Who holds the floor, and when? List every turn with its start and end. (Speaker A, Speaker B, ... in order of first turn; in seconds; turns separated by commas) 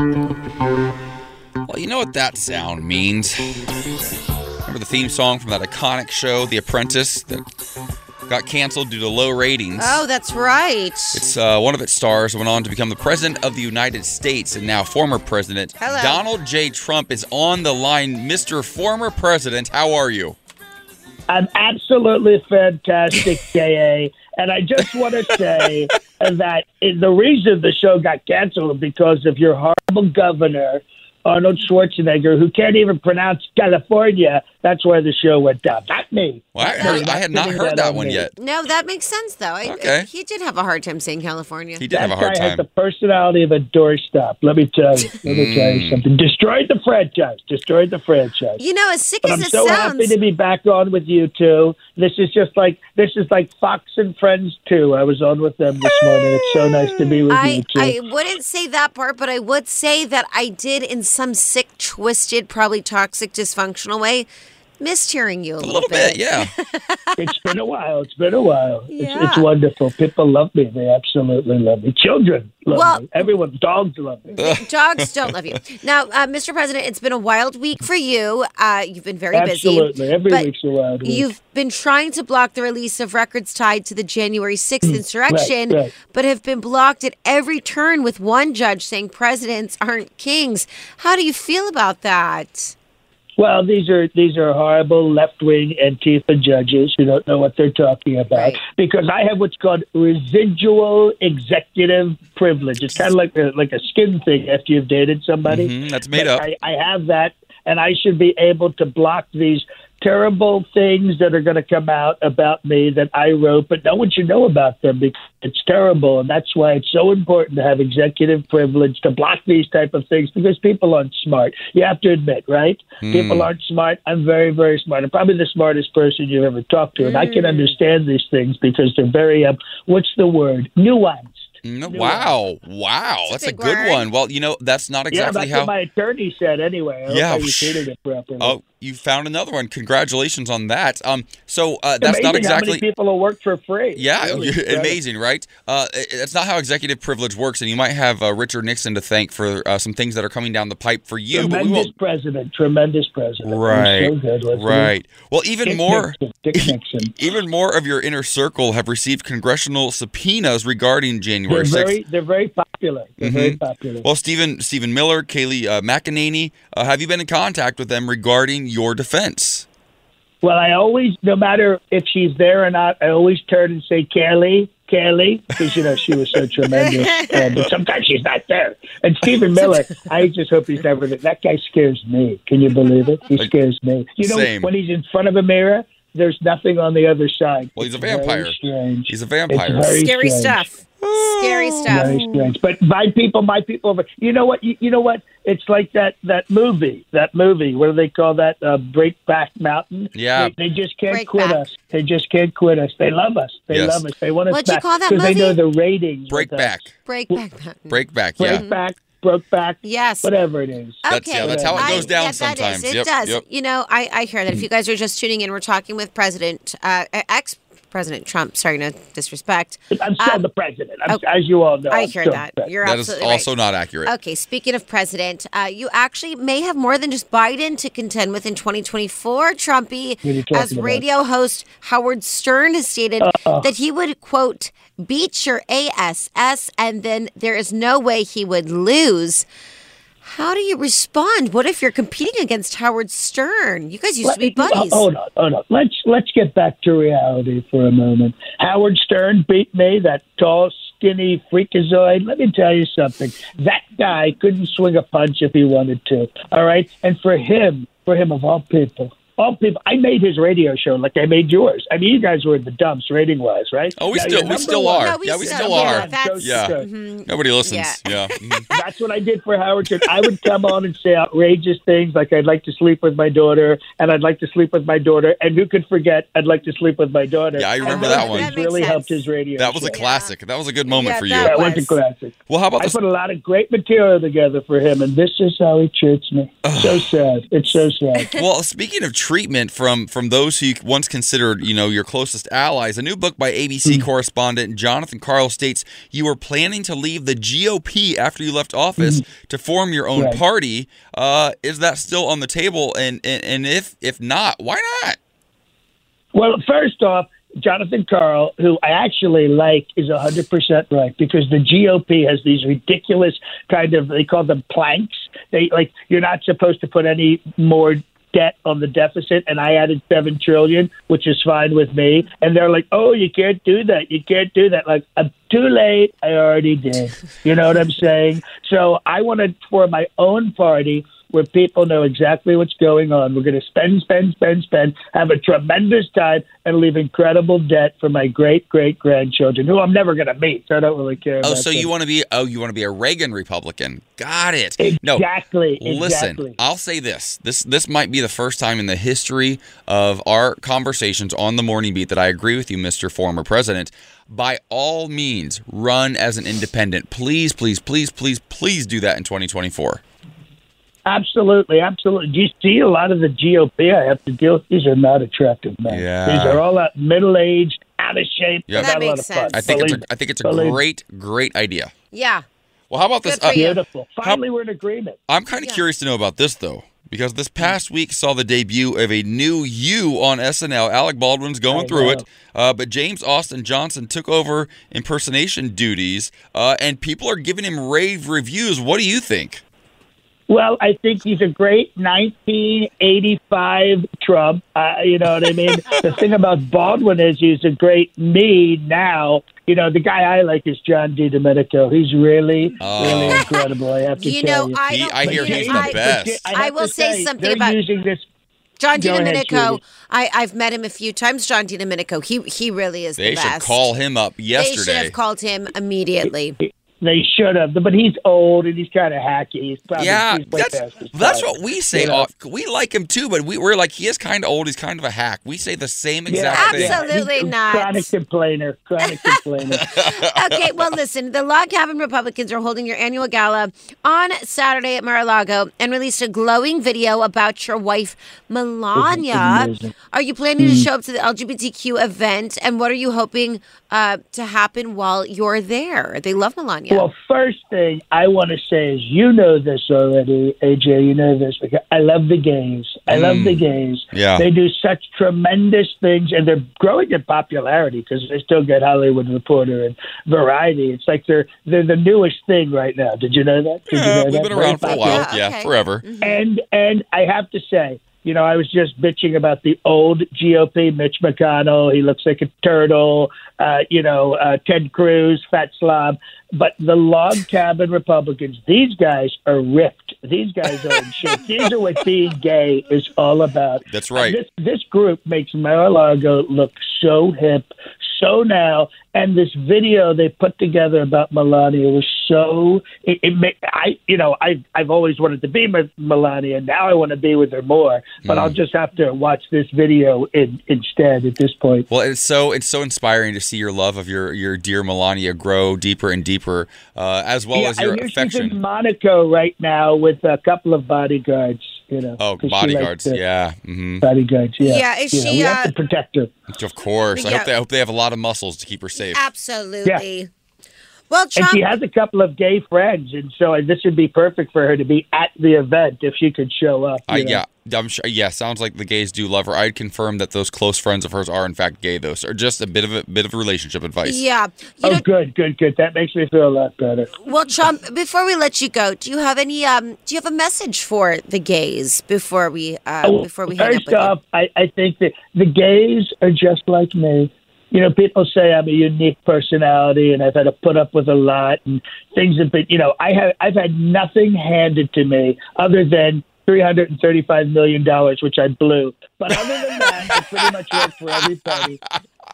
Speaker A: 1.6-3.4, Speaker A: 4.7-7.4, Speaker A: 8.3-10.0, Speaker B: 9.8-11.2, Speaker A: 11.1-20.4, Speaker B: 15.8-16.2, Speaker C: 21.3-38.2, Speaker A: 36.5-38.3, Speaker B: 36.6-37.1, Speaker B: 38.3-41.9, Speaker A: 39.6-40.1, Speaker A: 41.8-42.6, Speaker C: 41.9-48.6, Speaker A: 45.2-46.0, Speaker B: 48.6-50.2, Speaker C: 49.2-58.0, Speaker A: 56.1-57.2, Speaker B: 57.3-64.3, Speaker B: 64.8-67.5, Speaker A: 65.6-66.5, Speaker C: 67.2-74.3, Speaker B: 68.9-69.5, Speaker B: 72.7-73.3, Speaker B: 74.3-80.5, Speaker A: 74.4-75.3, Speaker C: 79.3-81.3, Speaker B: 81.0-92.7, Speaker C: 84.8-85.9, Speaker C: 93.4-132.3, Speaker B: 98.3-98.6, Speaker A: 105.4-106.5, Speaker A: 123.0-123.5, Speaker B: 127.0-127.8, Speaker A: 131.6-135.7, Speaker B: 133.2-134.1, Speaker C: 135.1-138.6, Speaker A: 137.1-142.8, Speaker C: 142.0-145.0, Speaker A: 143.9-151.9, Speaker C: 151.3-154.9, Speaker A: 153.4-162.0, Speaker C: 155.6-157.1, Speaker C: 161.5-164.1, Speaker A: 163.2-169.7, Speaker C: 170.4-190.7, Speaker B: 176.7-177.5, Speaker A: 177.1-177.6, Speaker B: 179.6-180.1, Speaker A: 184.2-184.7, Speaker A: 187.8-190.1, Speaker B: 189.9-192.2, Speaker A: 191.0-192.4, Speaker C: 191.9-207.4, Speaker A: 200.1-200.5, Speaker B: 201.1-201.6, Speaker A: 203.7-204.0, Speaker B: 204.5-205.6, Speaker A: 206.3-206.9, Speaker B: 207.0-208.8, Speaker A: 207.9-208.7, Speaker C: 208.4-211.9, Speaker B: 209.8-210.3, Speaker B: 211.0-220.4, Speaker A: 211.1-213.4, Speaker C: 219.9-222.7, Speaker B: 221.9-239.5, Speaker A: 222.8-224.1, Speaker C: 230.2-231.0, Speaker C: 233.2-233.7, Speaker B: 240.2-245.1, Speaker C: 244.2-266.8, Speaker A: 264.0-268.7, Speaker B: 264.2-268.9, Speaker C: 268.7-280.0, Speaker A: 277.5-278.6, Speaker B: 277.8-279.3, Speaker A: 279.5-281.8, Speaker B: 279.8-280.3, Speaker B: 280.8-282.0, Speaker C: 281.4-288.2, Speaker A: 282.5-283.0, Speaker A: 286.6-287.1, Speaker A: 288.3-305.2, Speaker C: 299.0-299.2, Speaker C: 300.1-300.4, Speaker C: 306.3-341.9, Speaker A: 341.4-345.3, Speaker C: 344.8-346.6, Speaker A: 345.8-360.0, Speaker C: 361.1-370.8, Speaker A: 365.9-366.6, Speaker A: 368.7-371.9, Speaker B: 368.7-369.9, Speaker B: 372.1-372.4, Speaker A: 372.9-374.4, Speaker B: 373.2-373.8, Speaker C: 373.6-375.2, Speaker A: 375.3-389.6, Speaker B: 375.5-375.9, Speaker C: 381.7-382.2, Speaker C: 390.5-408.2, Speaker A: 402.8-403.5, Speaker B: 403.2-407.8, Speaker A: 404.8-406.5, Speaker B: 408.8-413.8, Speaker C: 408.9-409.8, Speaker A: 413.2-415.1, Speaker B: 414.5-416.6, Speaker C: 416.2-422.2, Speaker A: 419.9-427.1, Speaker C: 426.3-429.8, Speaker B: 426.5-428.1, Speaker B: 429.0-447.1, Speaker A: 429.7-430.9, Speaker C: 438.9-439.9, Speaker C: 440.6-440.9, Speaker C: 446.9-465.4, Speaker A: 453.1-454.5, Speaker A: 463.9-466.1, Speaker B: 464.7-466.4, Speaker C: 466.2-501.9, Speaker A: 483.9-484.4, Speaker A: 498.2-498.6, Speaker A: 501.9-508.6, Speaker C: 507.5-513.2, Speaker A: 512.2-514.0, Speaker C: 514.0-516.3, Speaker B: 514.6-515.7, Speaker A: 516.5-519.2, Speaker B: 517.1-517.5, Speaker B: 519.0-520.3, Speaker B: 521.1-521.7, Speaker C: 521.3-527.4, Speaker A: 527.1-534.2, Speaker B: 534.0-535.0, Speaker C: 534.8-537.1, Speaker B: 537.2-544.1, Speaker C: 543.0-561.8, Speaker A: 559.9-561.8